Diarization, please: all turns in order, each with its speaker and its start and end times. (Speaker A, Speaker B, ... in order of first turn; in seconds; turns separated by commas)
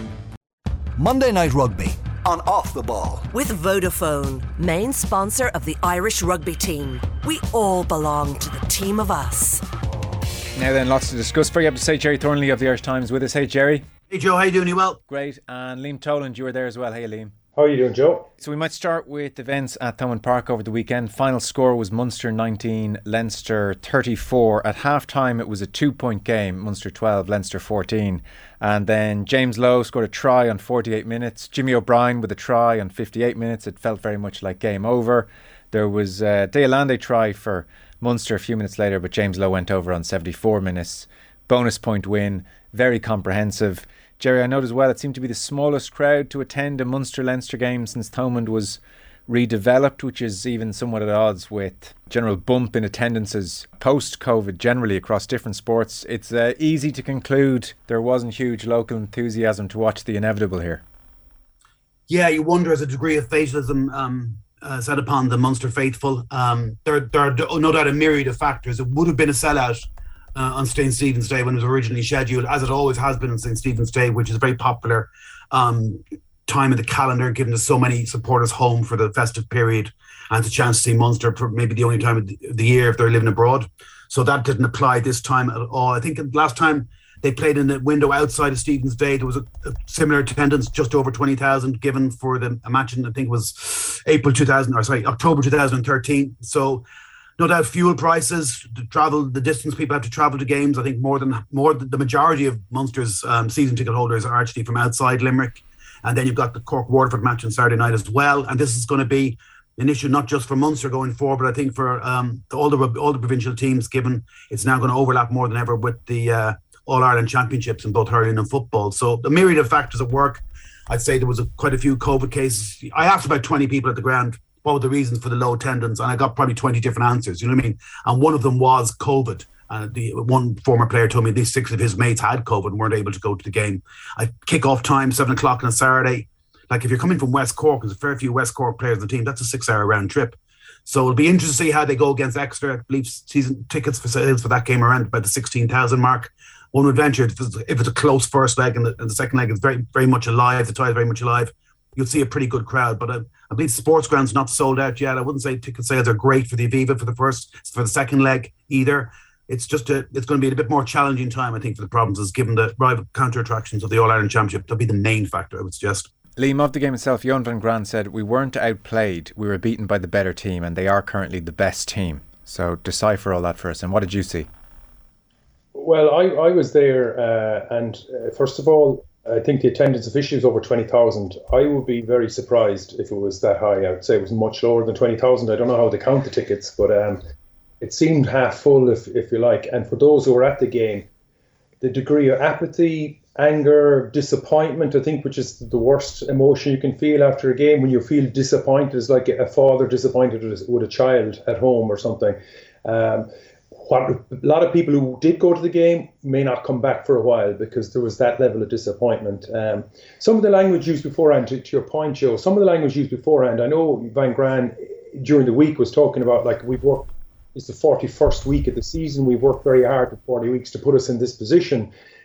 Speaker A: 1.0-3.3, Speaker B: 3.3-9.6, Speaker C: 10.6-13.8, Speaker D: 14.1-15.0, Speaker C: 15.1-17.3, Speaker E: 17.6-18.3, Speaker C: 18.4-60.8, Speaker D: 62.1-96.8, Speaker D: 97.4-166.1, Speaker C: 166.4-174.5, Speaker E: 175.8-187.2, Speaker E: 187.8-191.1, Speaker E: 191.8-221.9